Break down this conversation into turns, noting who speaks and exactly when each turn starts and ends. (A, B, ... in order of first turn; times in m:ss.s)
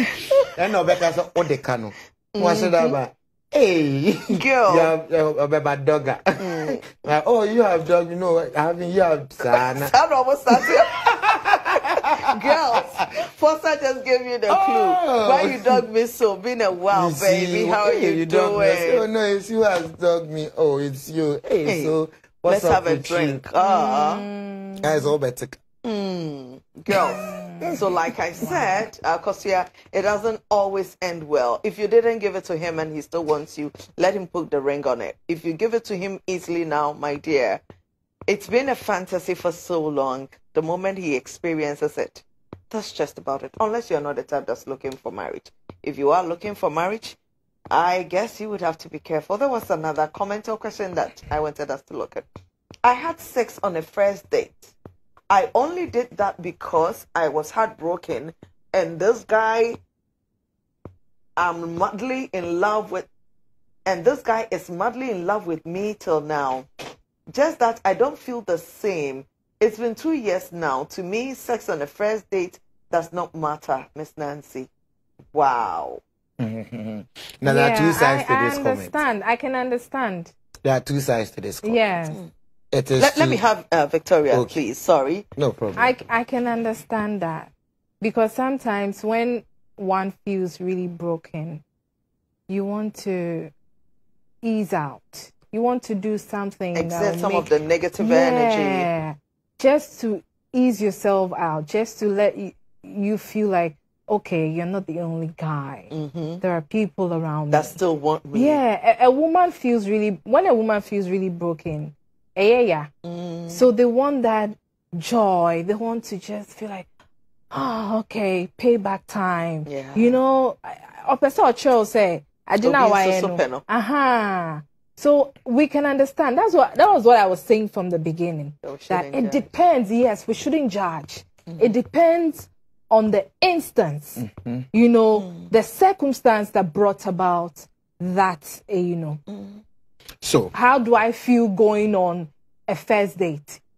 0:00.5-0:09.9 A
0:02.4-0:03.0 B
0:04.3-0:04.9 B
0:06.4-0:06.8 B
0:09.6-0:10.9 B
0:10.5-0:13.0 A
0:12.2-0:19.0 B
0:14.5-0:15.8 A
0:16.9-0:23.4 A
0:21.6-0:24.3 B
0:23.6-0:25.1 C
0:24.8-0:25.6 A
0:25.8-0:37.6 B
0:27.0-0:27.8 C
0:28.4-0:28.7 C
0:38.3-0:47.2 B
0:47.7-0:52.3 B
0:52.8-0:54.7 B
0:55.3-0:59.8 B
1:01.4-1:03.1 B
1:03.9-1:06.7 B
1:07.3-1:14.7 B
1:15.3-1:16.0 B
1:16.4-1:19.0 A
1:17.4-1:20.3 C
1:20.6-1:21.8 A
1:21.6-1:22.2 C
1:22.7-1:23.4 A
1:23.0-1:25.3 B
1:24.3-1:24.6 A
1:25.4-1:26.0 A
1:25.8-1:31.6 C
1:32.5-1:33.5 C
1:34.4-1:47.7 C
1:36.8-1:38.9 B
1:45.9-1:46.4 B
1:47.5-1:48.6 B
1:48.3-1:52.9 C
1:53.0-1:53.6 B
1:53.5-1:56.9 C
1:57.5-2:19.2 C
1:59.7-2:00.2 B
2:02.6-2:03.6 B
2:08.6-2:09.5 B
2:14.2-2:14.7 A
2:15.2-2:15.5 B
2:19.3-2:19.6 B
2:20.2-2:20.5 A
2:20.5-2:23.6 C